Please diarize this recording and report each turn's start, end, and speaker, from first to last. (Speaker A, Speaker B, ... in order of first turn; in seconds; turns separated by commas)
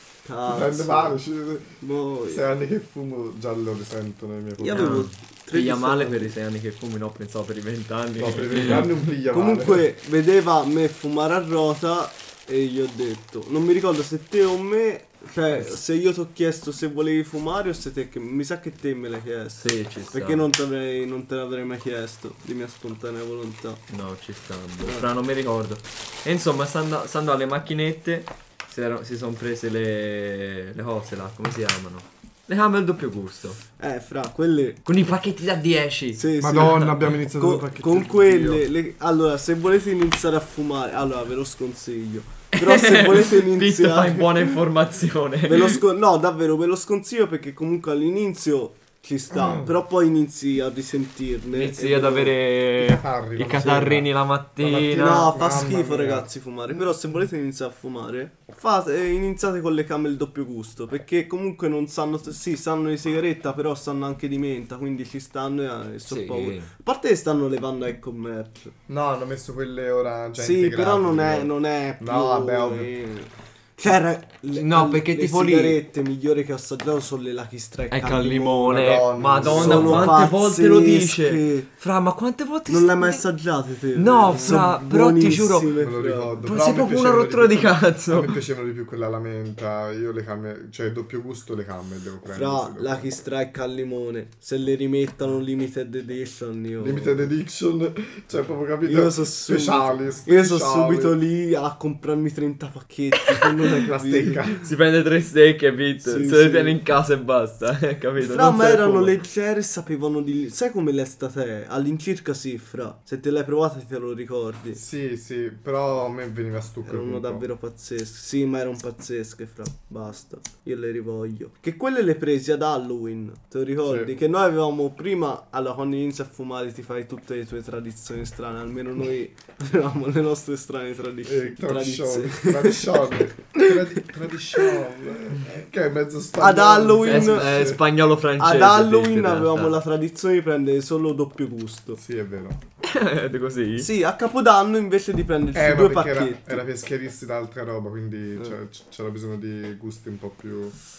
Speaker A: 0.2-1.2, Speaker B: 0.4-5.1, Speaker A: 1.8-2.5, Speaker A: 4.6-6.3, Speaker C: 4.7-8.9, Speaker B: 8.2-9.9, Speaker A: 8.7-23.8, Speaker C: 19.6-20.4, Speaker C: 23.9-33.6, Speaker A: 33.8-34.8, Speaker C: 34.8-36.3, Speaker A: 36.1-44.6, Speaker B: 36.4-38.6, Speaker C: 42.5-45.8, Speaker A: 45.5-52.4, Speaker B: 49.3-49.7, Speaker C: 51.5-55.3, Speaker B: 52.8-56.3, Speaker A: 53.6-53.9, Speaker A: 54.8-68.7, Speaker C: 66.1-66.7, Speaker B: 68.9-72.9, Speaker A: 70.4-78.8, Speaker C: 74.5-75.8, Speaker C: 77.9-83.2, Speaker B: 78.7-80.2, Speaker A: 79.4-81.7, Speaker A: 82.7-86.4, Speaker C: 83.9-85.7, Speaker B: 84.3-84.8, Speaker B: 85.7-93.1, Speaker C: 86.5-88.3, Speaker A: 92.3-97.3, Speaker B: 96.8-101.2, Speaker A: 98.8-104.5, Speaker B: 103.6-104.7, Speaker C: 104.6-109.2, Speaker A: 106.0-106.8, Speaker A: 108.2-114.8, Speaker B: 114.7-117.5, Speaker A: 116.8-134.0, Speaker B: 123.8-124.1, Speaker B: 131.2-137.8, Speaker A: 136.4-137.8, Speaker C: 137.0-139.8, Speaker A: 138.4-142.0, Speaker B: 142.0-142.6, Speaker C: 142.8-143.9, Speaker A: 143.8-146.6, Speaker B: 145.5-150.8